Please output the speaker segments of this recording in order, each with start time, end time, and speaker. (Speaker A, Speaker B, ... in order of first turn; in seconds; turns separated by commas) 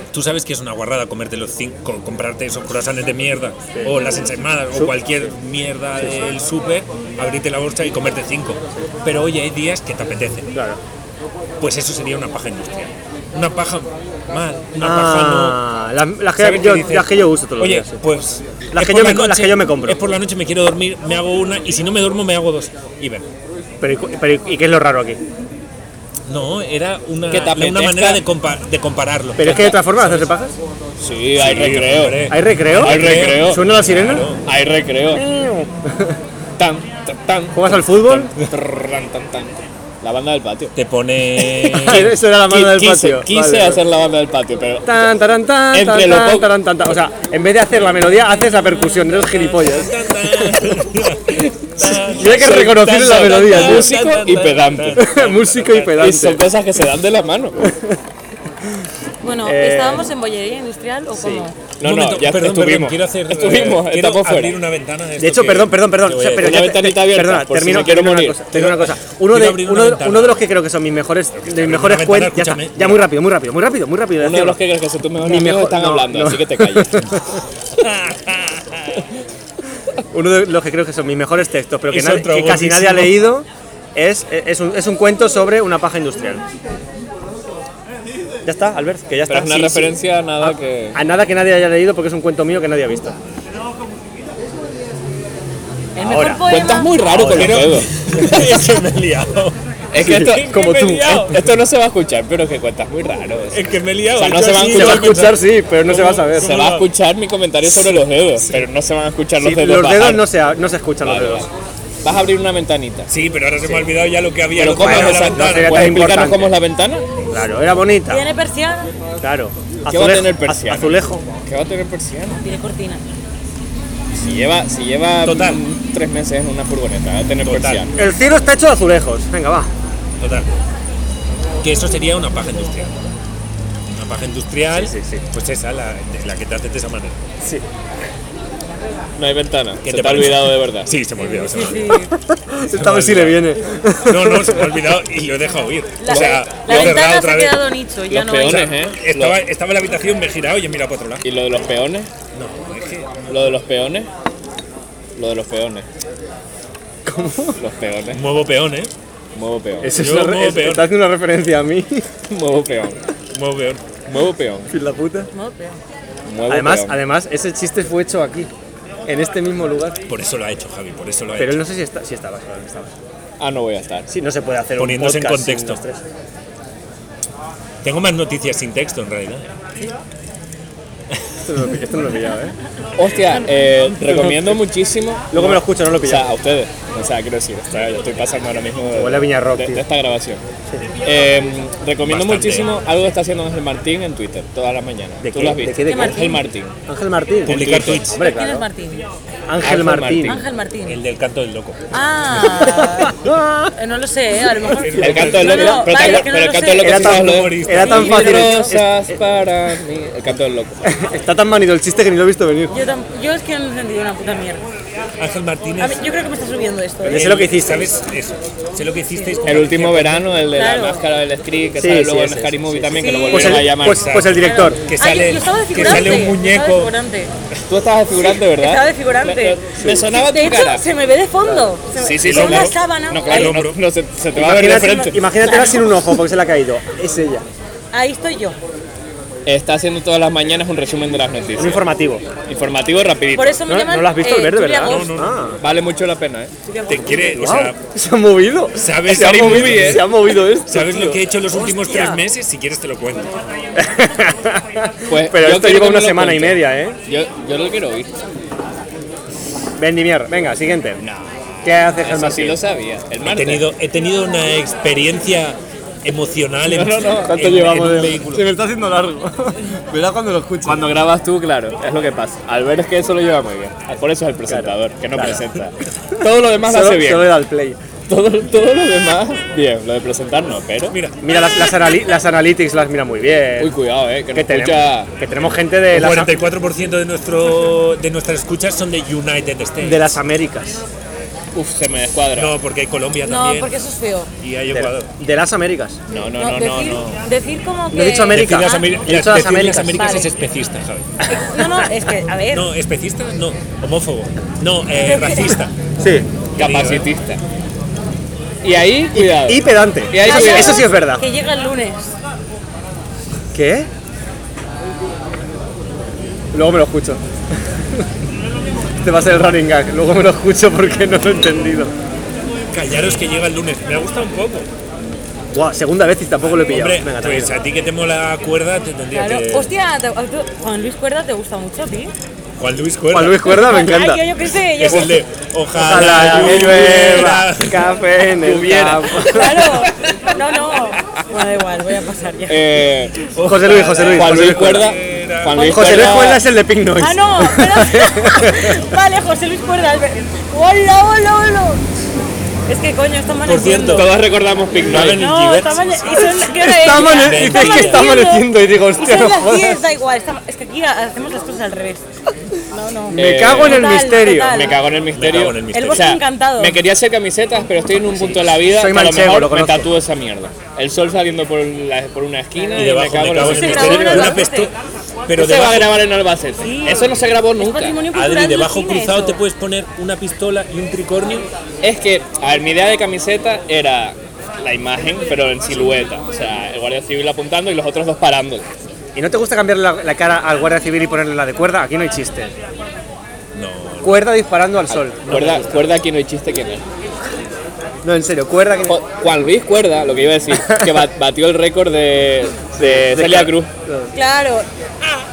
Speaker A: 0.1-10.5, Speaker B: 6.0-6.3, Speaker B: 10.5-10.8, Speaker A: 11.6-15.6, Speaker B: 14.8-18.0, Speaker A: 16.4-23.3, Speaker B: 18.7-20.0, Speaker B: 23.8-25.2, Speaker A: 26.3-30.3, Speaker C: 27.3-28.2, Speaker B: 29.4-30.6, Speaker C: 29.4-29.8, Speaker C: 31.0-33.6, Speaker A: 31.4-34.4, Speaker B: 32.3-34.3, Speaker C: 34.4-35.2, Speaker B: 35.1-36.2, Speaker C: 36.6-40.8, Speaker B: 37.5-38.3, Speaker A: 40.8-42.2, Speaker C: 41.4-45.0, Speaker B: 41.6-43.8, Speaker B: 44.9-50.6, Speaker C: 45.7-46.5, Speaker A: 47.9-56.0, Speaker C: 51.9-55.1, Speaker B: 52.0-53.9, Speaker B: 55.0-56.4, Speaker C: 55.9-57.6, Speaker B: 57.6-58.0, Speaker D: 59.2-61.6, Speaker B: 59.4-60.1, Speaker B: 61.1-61.5, Speaker C: 61.8-64.6, Speaker A: 61.8-66.7, Speaker B: 65.2-74.6, Speaker C: 66.3-68.7, Speaker A: 68.5-70.5, Speaker A: 71.4-73.1, Speaker C: 74.2-77.1, Speaker B: 75.2-77.2, Speaker A: 77.8-79.0, Speaker B: 80.1-86.4, Speaker A: 81.9-83.3, Speaker B: 88.5-93.2, Speaker C: 89.3-91.0, Speaker D: 96.0-97.1, Speaker B: 96.0-96.5, Speaker C: 96.5-97.9, Speaker B: 97.1-97.7, Speaker A: 97.2-100.5, Speaker B: 98.2-98.4, Speaker C: 99.9-110.3, Speaker B: 100.0-101.4, Speaker A: 103.5-106.9, Speaker B: 104.6-106.5, Speaker B: 109.4-111.5, Speaker C: 111.0-111.5, Speaker C: 112.0-113.1, Speaker A: 113.1-116.0, Speaker C: 114.5-117.1, Speaker B: 114.7-116.5, Speaker B: 117.3-118.2, Speaker D: 118.1-118.9, Speaker B: 119.2-121.2, Speaker C: 119.9-122.4, Speaker D: 122.3-123.0, Speaker C: 124.2-128.0, Speaker A: 125.2-125.6, Speaker A: 127.4-127.9, Speaker B: 128.0-129.7, Speaker A: 130.2-130.5, Speaker A: 131.6-133.1, Speaker A: 133.9-137.2, Speaker B: 134.7-135.2, Speaker C: 139.2-140.9, Speaker A: 139.8-142.0, Speaker D: 141.2-142.1, Speaker B: 142.1-144.8, Speaker A: 142.7-143.4, Speaker A: 144.0-147.6, Speaker D: 146.0-148.7, Speaker C: 146.1-147.0, Speaker C: 148.1-149.4, Speaker A: 148.4-151.2, Speaker C: 151.2-152.1, Speaker A: 152.3-153.3, Speaker C: 153.3-154.1, Speaker C: 155.2-155.9, Speaker B: 157.1-157.6, Speaker C: 157.6-158.2, Speaker A: 158.1-158.9, Speaker C: 159.3-160.0, Speaker B: 159.8-162.1, Speaker A: 159.9-160.9, Speaker C: 162.3-163.0, Speaker A: 163.3-163.8, Speaker C: 164.1-164.7, Speaker B: 164.7-165.3, Speaker D: 165.3-165.8, Speaker C: 166.3-167.0, Speaker B: 166.5-168.5, Speaker B: 169.1-170.0, Speaker A: 170.1-171.6, Speaker B: 171.4-172.9, Speaker C: 173.4-174.1, Speaker B: 174.1-176.0, Speaker A: 174.8-175.8, Speaker A: 177.8-179.5, Speaker B: 181.4-182.6, Speaker C: 183.0-190.4, Speaker B: 184.0-184.6, Speaker B: 185.3-186.3, Speaker B: 188.9-189.8, Speaker C: 191.0-196.8, Speaker A: 192.0-192.7, Speaker B: 195.2-196.2, Speaker D: 195.9-196.5, Speaker B: 196.9-198.7, Speaker A: 197.4-198.2, Speaker C: 197.5-198.1, Speaker D: 198.2-199.1, Speaker B: 199.5-200.4, Speaker C: 199.6-200.4, Speaker D: 200.3-201.0, Speaker A: 200.8-201.8, Speaker D: 201.9-203.2, Speaker B: 202.6-203.7, Speaker D: 203.7-207.1, Speaker A: 204.7-205.7, Speaker B: 204.9-206.3, Speaker C: 205.0-210.8, Speaker B: 206.8-209.2, Speaker A: 206.8-208.2, Speaker D: 207.8-208.8, Speaker B: 210.8-212.8, Speaker D: 212.7-214.6, Speaker A: 215.2-216.2, Speaker D: 215.8-217.4, Speaker B: 217.0-217.9, Speaker A: 217.1-220.3, Speaker D: 219.1-219.4, Speaker C: 219.4-224.1, Speaker D: 220.5-221.0, Speaker B: 221.8-224.8, Speaker D: 222.9-223.7, Speaker A: 223.7-226.9, Speaker D: 224.3-227.3, Speaker C: 227.7-230.8, Speaker D: 228.6-233.5, Speaker C: 231.9-235.3, Speaker A: 232.2-233.8, Speaker B: 234.3-237.5, Speaker D: 235.4-235.8, Speaker D: 237.9-238.6, Speaker C: 239.5-241.8, Speaker B: 241.6-242.3, Speaker C: 242.4-243.6, Speaker D: 243.3-245.1, Speaker B: 243.7-245.6, Speaker A: 244.8-245.6, Speaker C: 245.6-246.5, Speaker D: 246.7-247.3, Speaker A: 246.9-247.8, Speaker B: 247.2-252.2, Speaker A: 248.8-253.3, Speaker C: 249.1-250.2, Speaker B: 253.8-257.0, Speaker C: 255.1-258.1, Speaker B: 259.8-261.0, Speaker C: 261.0-263.7, Speaker B: 261.6-262.6, Speaker A: 263.2-268.5, Speaker C: 266.6-267.9, Speaker B: 267.2-270.9, Speaker C: 270.6-277.4, Speaker B: 274.5-275.4, Speaker B: 276.6-277.8, Speaker C: 278.1-281.0, Speaker A: 280.9-281.2, Speaker B: 281.2-283.7, Speaker C: 283.6-285.1, Speaker B: 284.3-286.3, Speaker A: 285.9-290.2, Speaker B: 289.8-290.8, Speaker C: 291.5-292.5, Speaker A: 292.4-293.7, Speaker D: 293.2-294.3, Speaker A: 294.4-295.1, Speaker B: 294.7-296.0, Speaker C: 296.1-297.2, Speaker D: 296.4-298.9, Speaker B: 297.9-300.1, Speaker A: 298.3-301.2, Speaker D: 299.9-300.3, Speaker D: 301.3-302.7, Speaker A: 302.5-305.7, Speaker D: 305.0-305.6, Speaker B: 306.0-306.3, Speaker C: 306.6-307.4, Speaker A: 306.6-307.1, Speaker C: 308.6-310.9, Speaker B: 309.1-311.2, Speaker D: 310.2-312.1, Speaker B: 313.5-313.9, Speaker B: 316.5-317.2, Speaker B: 319.0-321.9, Speaker A: 322.7-324.7, Speaker B: 325.5-327.5, Speaker A: 326.4-329.7, Speaker D: 329.1-332.1, Speaker A: 332.6-333.6, Speaker B: 333.1-334.2, Speaker D: 333.5-335.2, Speaker A: 334.7-337.9, Speaker B: 335.8-339.7, Speaker C: 336.1-337.3, Speaker C: 338.4-339.7, Speaker D: 339.2-342.8, Speaker C: 342.5-343.2, Speaker A: 343.3-345.9, Speaker B: 343.4-344.9, Speaker C: 343.9-346.4, Speaker D: 345.6-346.2, Speaker B: 345.6-348.8, Speaker D: 347.0-351.8, Speaker D: 352.7-354.1, Speaker A: 353.4-354.1, Speaker C: 353.9-355.2, Speaker A: 354.8-358.1, Speaker D: 354.9-362.0, Speaker B: 356.6-359.8, Speaker D: 362.7-364.8, Speaker B: 363.1-364.7, Speaker C: 363.1-374.4, Speaker A: 365.1-366.1, Speaker D: 365.7-366.8, Speaker B: 368.2-369.9, Speaker A: 372.7-374.8, Speaker D: 373.4-374.7, Speaker A: 375.3-376.0, Speaker C: 375.4-378.0, Speaker D: 376.6-379.4, Speaker A: 378.1-381.5, Speaker C: 381.8-388.7, Speaker B: 389.1-392.5, Speaker A: 393.5-394.3, Speaker B: 394.0-395.9, Speaker C: 394.9-396.8, Speaker B: 398.0-399.0, Speaker C: 398.9-403.7, Speaker B: 400.6-400.9, Speaker B: 402.8-404.1, Speaker D: 404.1-404.7